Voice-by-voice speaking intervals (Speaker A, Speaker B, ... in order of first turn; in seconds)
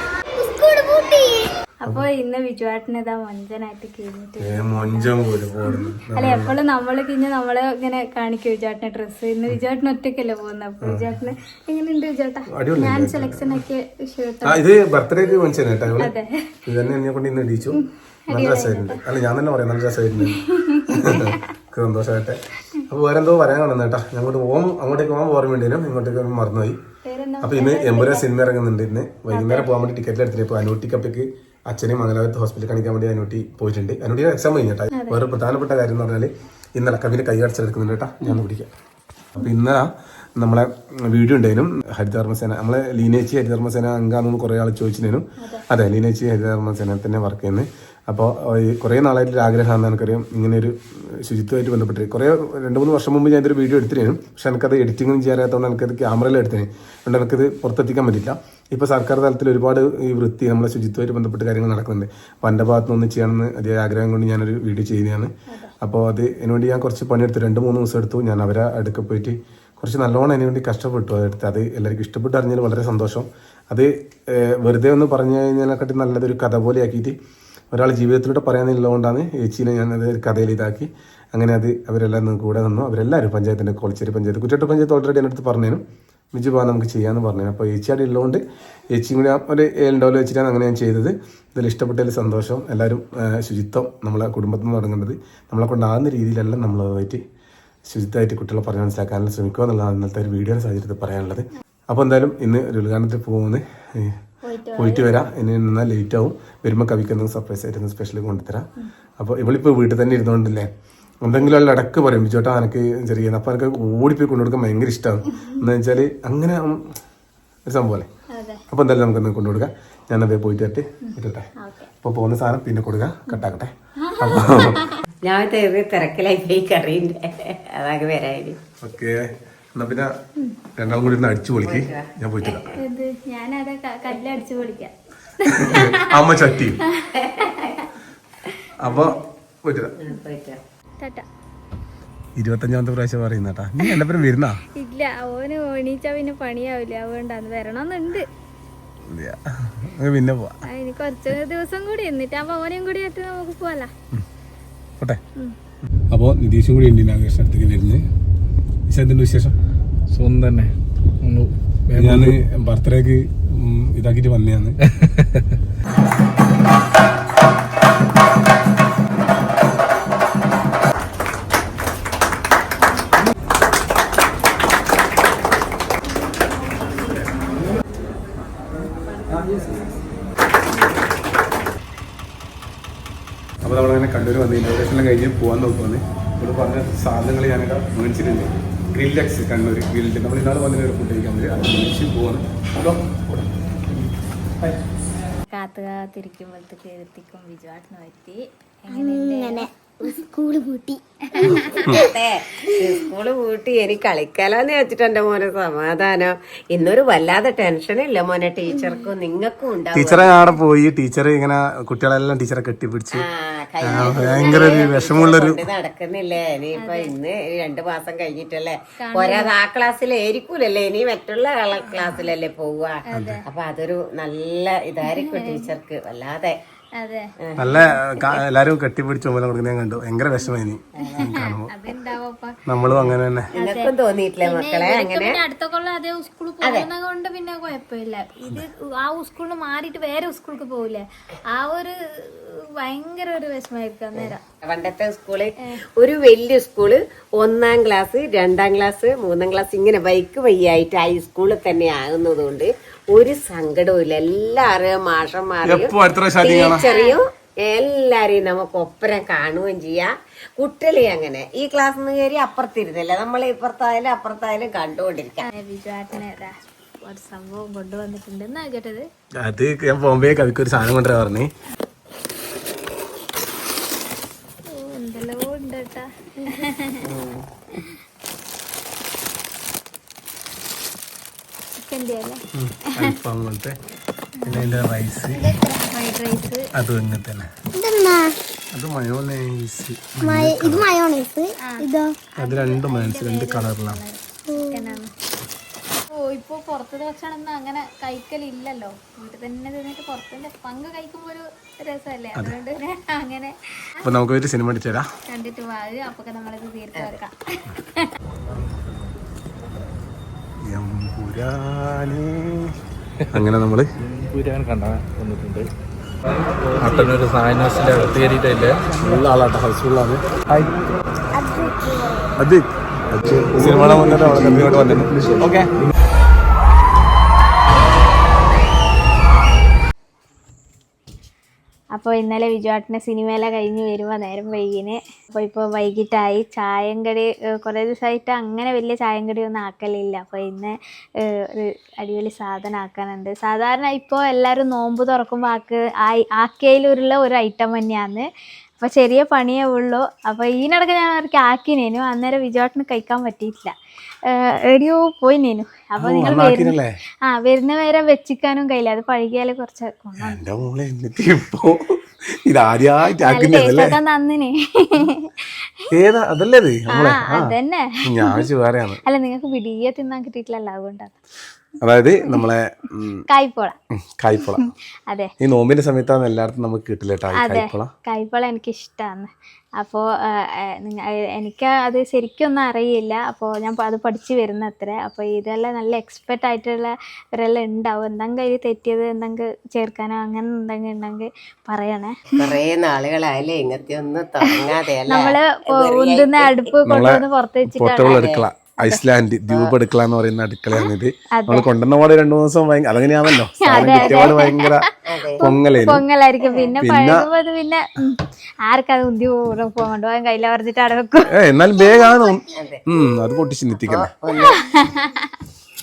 Speaker A: 0.3-1.5, 199.0-201.7, 285.3-285.8, 287.7-288.4, 290.2-292.2, 294.5-295.0, 321.4-322.3
Speaker B: 1.8-5.1, 5.7-14.6, 16.0-16.5, 17.8-19.0, 20.2-21.5, 27.1-28.3, 29.3-29.7, 34.9-35.2, 45.4-45.6, 65.5-65.7, 104.4-105.1, 115.4-115.6, 118.3-118.6, 121.0-121.9, 124.0-125.0, 132.8-136.1, 136.8-137.9, 141.0-141.3, 144.7-148.3, 150.6-153.9, 195.5-200.2, 201.3-202.1, 214.2-214.7, 216.8-217.1, 219.0-219.5, 223.1-223.4, 225.0-225.7, 227.0-227.9, 231.0-232.6, 233.6-244.4, 256.6-257.2, 265.4-269.1, 274.7-277.1, 281.8-283.1, 284.4-284.8, 285.6-286.7, 291.6-295.1, 296.1-304.1, 305.3-308.1, 332.0-348.2, 348.8-353.7, 354.3-360.4, 363.2-365.8, 366.9-368.5, 369.1-371.1, 373.3-373.8, 374.4-375.3, 377.4-392.4, 394.6-398.2, 400.8-401.7, 403.6-411.3, 414.3-415.4
Speaker C: 4.4-6.6, 10.8-11.1, 12.5-13.6, 14.4-16.1, 16.7-26.8, 27.4-38.7, 39.4-77.2, 77.7-85.8, 86.3-97.2, 97.9-104.2, 104.8-108.7, 109.2-110.7, 111.2-116.8, 117.7-118.1, 118.7-121.5, 122.0-124.9, 128.8-130.1, 130.8-132.7, 135.6-136.8, 138.8-140.0, 142.4-144.6, 149.1-150.6, 156.1-158.0, 158.9-159.6, 161.9-164.8, 183.6-194.1, 201.7-202.1, 209.9-213.3, 213.8-215.7, 223.1-223.4, 227.6-231.7, 232.7-233.5, 255.6-256.9, 269.4-271.5, 277.1-277.4, 282.5-283.8, 284.4-285.6, 286.8-287.5, 288.7-290.9, 292.4-294.0, 304.0-305.1, 310.7-312.8, 313.3-313.9, 316.8-317.2, 319.0-320.7, 322.4-325.7, 356.0-356.9, 360.2-363.9, 365.9-369.0, 371.8-373.2, 374.0-374.6, 375.4-377.9, 396.8-404.9, 405.4-406.0, 406.8-407.3, 411.3-414.1
Speaker D: 125.2-128.6, 131.0-132.8, 137.2-137.8, 138.8-139.1, 140.0-140.6, 201.8-210.4, 213.1-226.6, 227.4-228.4, 231.0-231.3, 233.5-235.4, 244.2-265.5, 392.3-396.7, 398.0-398.5, 399.5-399.7, 403.8-404.4, 405.1-405.4, 406.4-406.8, 412.5-412.9, 413.8-414.6
Speaker E: 160.1-162.3, 314.1-315.7, 316.7-319.2, 323.2-325.5